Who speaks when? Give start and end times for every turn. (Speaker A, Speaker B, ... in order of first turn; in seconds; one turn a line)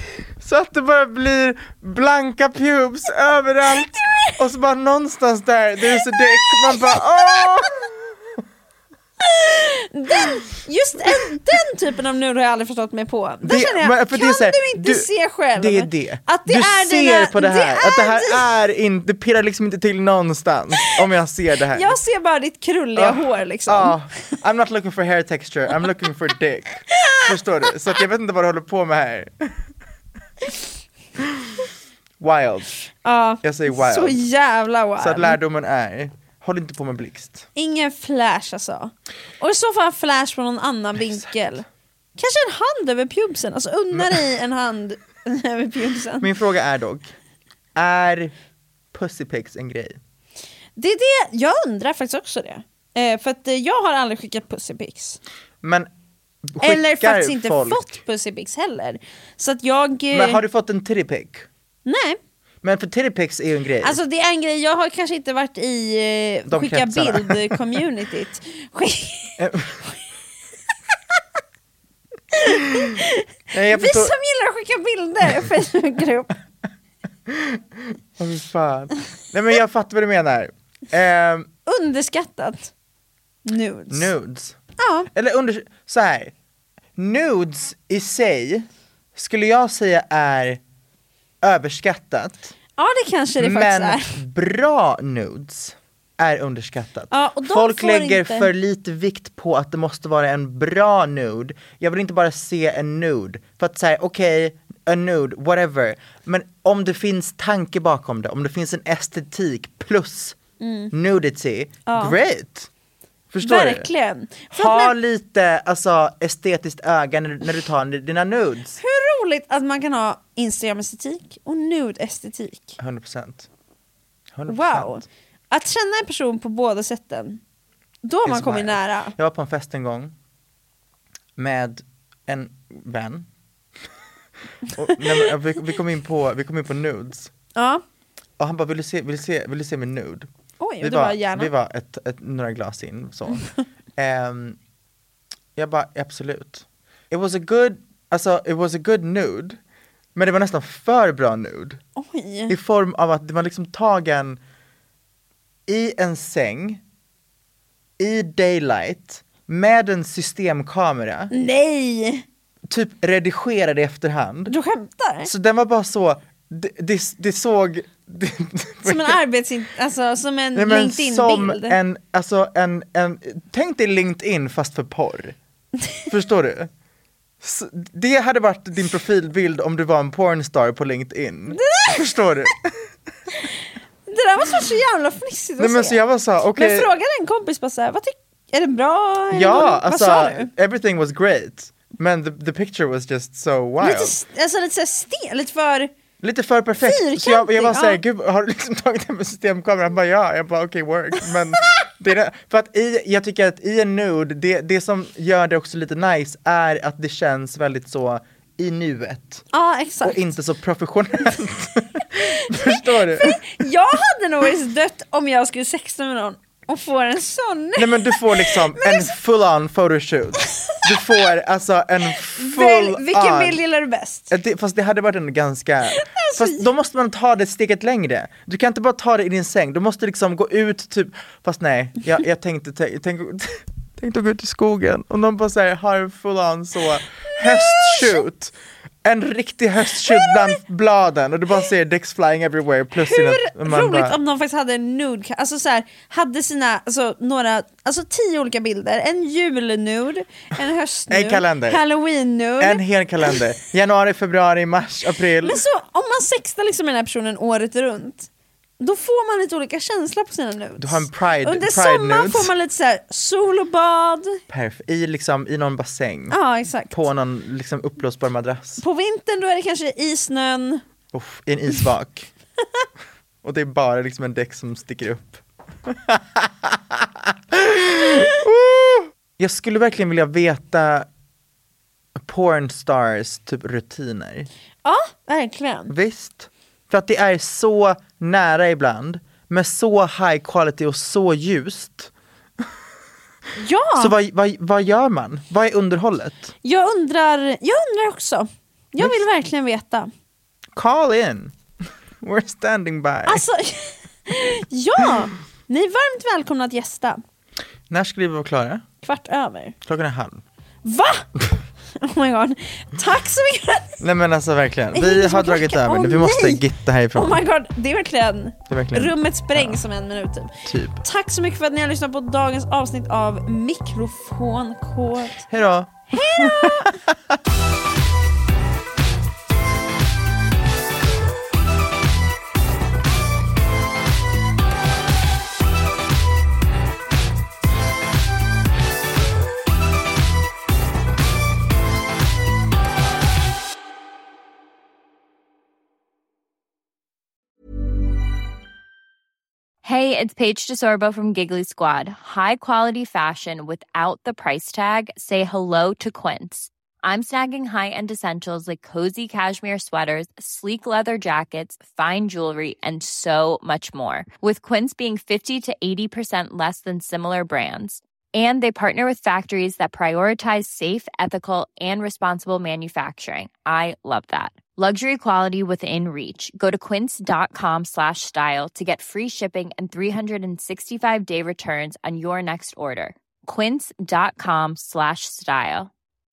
Speaker A: 0.4-8.1
Speaker B: 3.9-4.3
Speaker B: 6.1-7.7
Speaker B: 9.2-18.4
Speaker A: 13.4-22.0
Speaker B: 21.7-24.0
Speaker A: 22.9-29.6
Speaker B: 26.9-27.2
Speaker A: 31.2-31.5
Speaker A: 32.2-32.7
Speaker B: 33.0-35.4
Speaker A: 33.4-34.2
Speaker A: 35.0-37.5
Speaker B: 37.5-41.6
Speaker A: 41.0-41.3
Speaker B: 42.2-46.3
Speaker A: 43.9-44.2
Speaker A: 46.2-47.1
Speaker A: 47.7-48.3
Speaker A: 48.9-50.0
Speaker B: 50.8-55.2
Speaker A: 55.6-55.9
Speaker A: 56.4-58.0
Speaker B: 56.6-60.4
Speaker A: 60.1-61.5
Speaker B: 61.8-62.2
Speaker A: 62.6-64.0
Speaker B: 63.8-69.4
Speaker A: 66.5-67.8
Speaker A: 69.4-69.8
Speaker B: 72.3-76.3
Speaker A: 73.5-74.1
Speaker A: 77.3-81.5
Speaker B: 81.7-82.7
Speaker B: 83.4-84.1
Speaker A: 83.9-84.6
Speaker B: 84.8-85.1
Speaker A: 85.1-86.3
Speaker A: 87.0-90.6
Speaker A: 91.4-92.5
Speaker B: 92.8-94.2
Speaker A: 93.4-110.4
Speaker B: 97.1-98.5
Speaker B: 110.6-110.9
Speaker A: 110.9-112.7
Speaker B: 111.9-112.2
Speaker A: 113.3-113.9
Speaker B: 113.4-114.9
Speaker A: 114.5-118.8
Speaker B: 118.8-122.8
Speaker A: 122.8-123.5
Speaker A: 124.3-125.0
Speaker B: 124.5-127.4
Speaker B: 128.0-129.1
Speaker A: 128.2-130.1
Speaker A: 131.4-133.3
Speaker A: 134.7-137.3
Speaker B: 137.5-137.8
Speaker A: 138.4-140.3
Speaker B: 140.6-141.5
Speaker A: 140.8-144.6
Speaker A: 145.6-149.6
Speaker A: 150.1-151.8
Speaker B: 152.0-152.5
Speaker A: 152.5-154.4
Speaker A: 155.7-156.8
Speaker A: 158.0-161.3
Speaker B: 161.3-162.2
Speaker A: 162.7-164.5
Speaker B: 164.5-165.3
Speaker A: 165.2-169.2
Speaker B: 168.8-171.8
Speaker A: 170.5-175.4
Speaker A: 176.1-176.7
Speaker A: 177.4-182.8
Speaker B: 181.5-182.0
Speaker B: 184.1-186.0
Speaker A: 185.6-186.9
Speaker B: 186.5-190.5
Speaker A: 189.3-194.1
Speaker B: 193.8-195.9
Speaker A: 196.2-209.4
Speaker B: 196.8-198.0
Speaker B: 209.5-210.3
Speaker A: 210.0-213.6
Speaker B: 212.5-219.1
Speaker A: 217.8-223.6
Speaker B: 222.3-224.3
Speaker A: 224.3-244.2
Speaker B: 225.9-226.6
Speaker B: 237.3-238.2
Speaker B: 239.9-240.6
Speaker B: 242.9-253.4
Speaker A: 251.1-251.8
Speaker A: 252.6-255.6
Speaker B: 255.4-258.3
Speaker B: 258.8-264.4
Speaker A: 260.8-262.5
Speaker A: 264.5-266.4
Speaker B: 266.3-267.0
Speaker A: 266.9-268.8
Speaker B: 268.8-270.8
Speaker A: 271.1-272.3
Speaker A: 273.4-281.1
Speaker A: 282.2-284.5
Speaker B: 284.8-285.9
Speaker A: 285.9-292.1
Speaker B: 293.6-294.1
Speaker A: 294.0-296.5
Speaker B: 296.6-300.1
Speaker A: 300.7-301.6
Speaker A: 302.2-303.4
Speaker B: 303.2-307.2
Speaker A: 307.9-308.8
Speaker B: 309.0-309.8
Speaker A: 309.8-310.4
Speaker B: 310.8-311.3
Speaker B: 311.9-314.0
Speaker A: 314.0-317.4
Speaker B: 314.9-316.6
Speaker B: 317.1-325.5
Speaker A: 318.7-319.8
Speaker A: 320.6-321.0
Speaker A: 325.5-327.3
Speaker B: 326.1-327.0
Speaker C: 349.8-385.9